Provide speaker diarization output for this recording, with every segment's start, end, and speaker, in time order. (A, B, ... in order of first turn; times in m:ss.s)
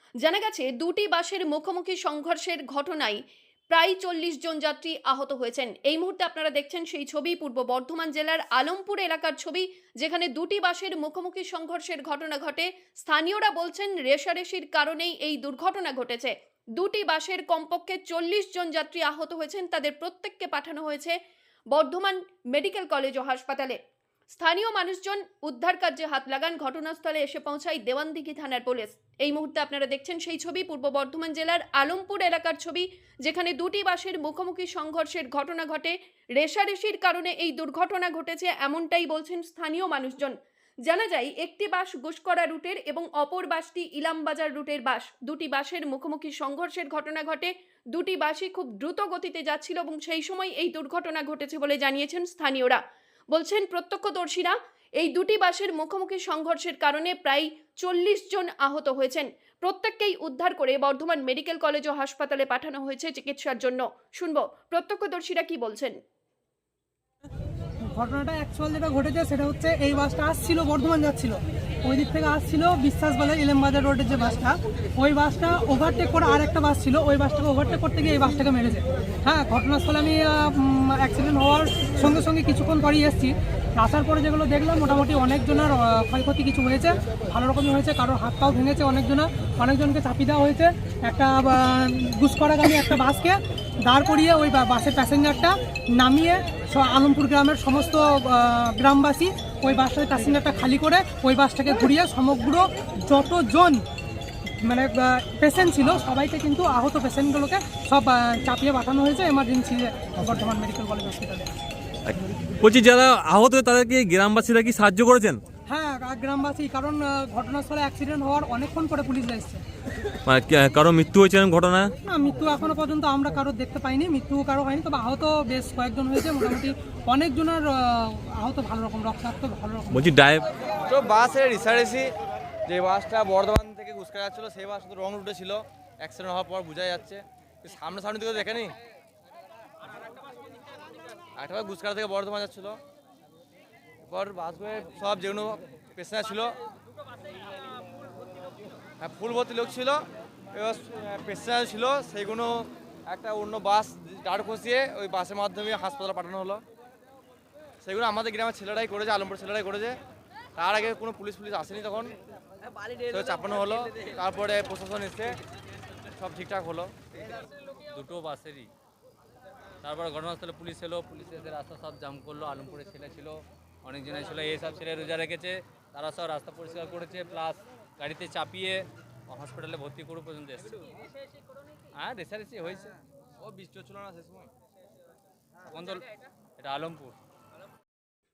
0:00.2-0:21.2 A
0:21.7-0:23.8 A
0:24.3-0:52.8 A
0:53.3-1:06.0 A
1:07.9-1:43.8 B
1:44.6-1:51.5 B
1:52.6-1:55.4 C
1:55.7-1:59.6 B
2:00.3-2:01.9 C
2:02.0-2:10.0 B
2:10.0-2:10.4 C
2:10.8-2:12.1 D
2:12.7-2:18.7 D
2:21.4-2:22.8 D
2:24.1-2:26.5 D
2:29.0-2:30.0 D
2:30.5-2:36.6 D
2:37.8-2:40.0 D
2:40.6-2:42.1 D
2:43.1-2:45.4 D
2:46.2-2:46.9 D
2:47.9-2:48.7 E
2:49.8-3:00.8 E
3:01.9-3:02.9 E
3:03.4-3:04.5 D
3:05.7-3:06.0 E
3:06.6-3:07.1 E